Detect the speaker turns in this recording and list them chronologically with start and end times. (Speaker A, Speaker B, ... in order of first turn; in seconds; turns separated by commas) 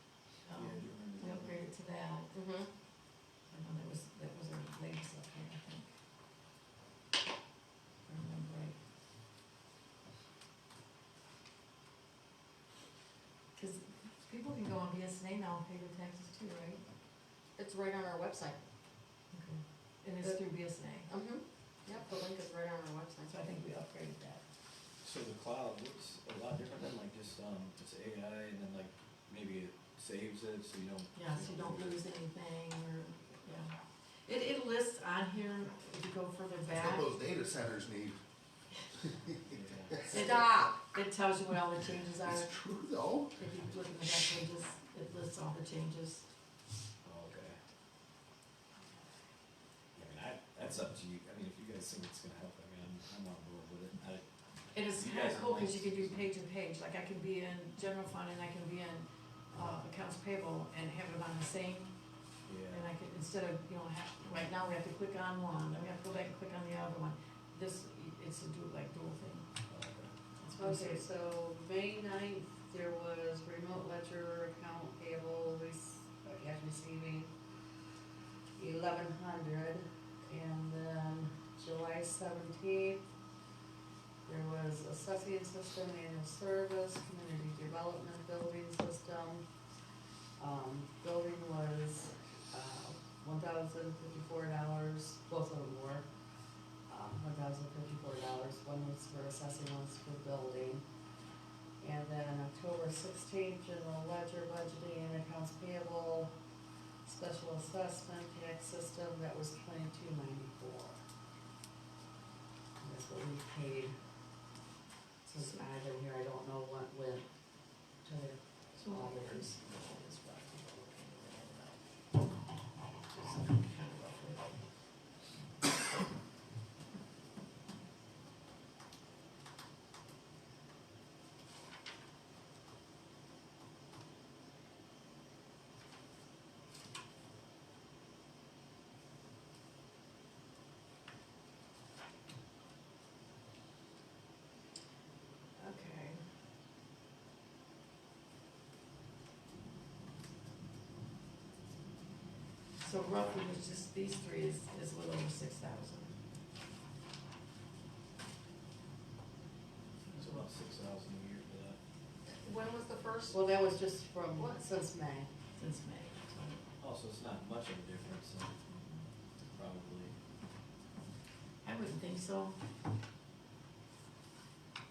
Speaker A: 0.5-2.3, Speaker B: 0.5-1.6, Speaker C: 2.3-2.7, Speaker A: 3.5-5.9, Speaker A: 8.1-8.8, Speaker A: 13.6-16.8, Speaker C: 17.6-18.6, Speaker A: 19.3-21.1, Speaker C: 21.1-23.3, Speaker A: 23.3-24.4, Speaker B: 25.0-32.0, Speaker A: 31.1-33.7, Speaker A: 34.3-37.1, Speaker D: 36.8-38.2, Speaker B: 39.5-40.1, Speaker A: 40.1-42.5, Speaker C: 40.1-40.8, Speaker D: 40.2-40.7, Speaker D: 42.2-43.4, Speaker A: 43.4-46.3, Speaker B: 47.0-47.6, Speaker B: 50.0-54.2, Speaker A: 54.7-61.9, Speaker B: 54.8-56.2, Speaker B: 62.5-62.8, Speaker A: 62.7-69.5, Speaker B: 69.7-70.1, Speaker A: 70.4-71.0, Speaker E: 70.6-77.3, Speaker E: 78.6-83.0, Speaker E: 84.3-89.4, Speaker E: 90.4-96.1, Speaker E: 96.9-100.8, Speaker E: 101.8-106.3, Speaker E: 107.0-111.0, Speaker E: 112.8-113.9, Speaker E: 115.2-117.3, Speaker E: 118.0-119.5, Speaker A: 118.8-121.8, Speaker A: 122.9-124.6, Speaker A: 145.6-146.2, Speaker A: 152.8-156.1, Speaker A: 160.0-160.4, Speaker B: 160.1-161.8, Speaker C: 162.4-163.4, Speaker E: 163.3-165.3, Speaker A: 165.6-166.6, Speaker B: 166.8-168.6, Speaker A: 168.7-169.1, Speaker B: 169.5-170.1, Speaker A: 171.6-172.6